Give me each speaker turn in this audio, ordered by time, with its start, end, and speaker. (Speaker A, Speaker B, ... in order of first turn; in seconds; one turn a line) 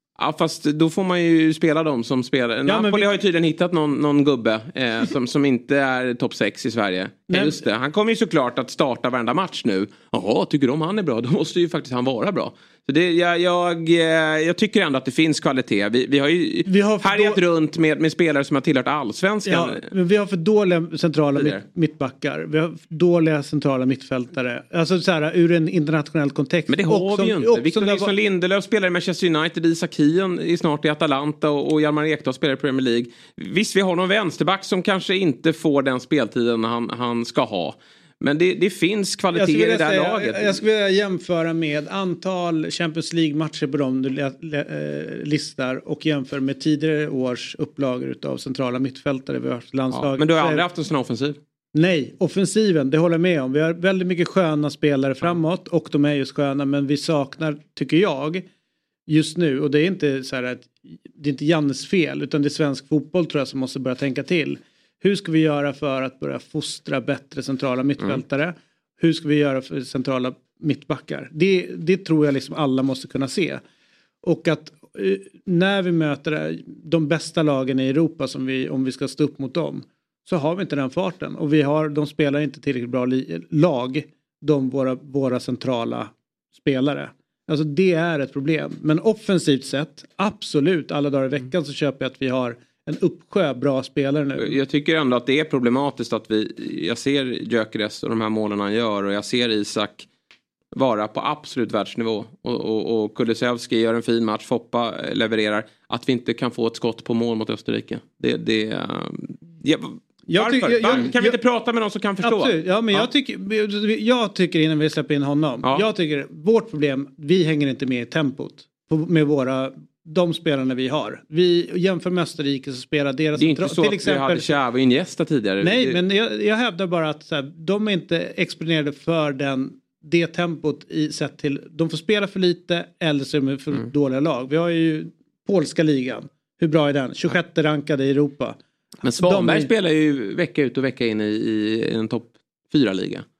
Speaker A: 0.2-19.9
Speaker B: 2.7-3.1
Speaker B: 7.3-7.6
Speaker B: 16.7-17.4
Speaker B: 19.4-28.1
Speaker A: 21.4-21.6
Speaker A: 26.7-40.6
Speaker B: 39.3-50.6
Speaker A: 49.9-51.4
Speaker B: 51.8-58.5
Speaker B: 59.1-73.6
Speaker B: 74.2-94.6
Speaker A: 94.4-100.1
Speaker A: 100.7-113.1
Speaker B: 110.3-111.4
Speaker B: 112.2-124.5
Speaker A: 123.4-126.0
Speaker B: 125.6-138.6
Speaker A: 139.0-143.2
Speaker B: 139.2-139.7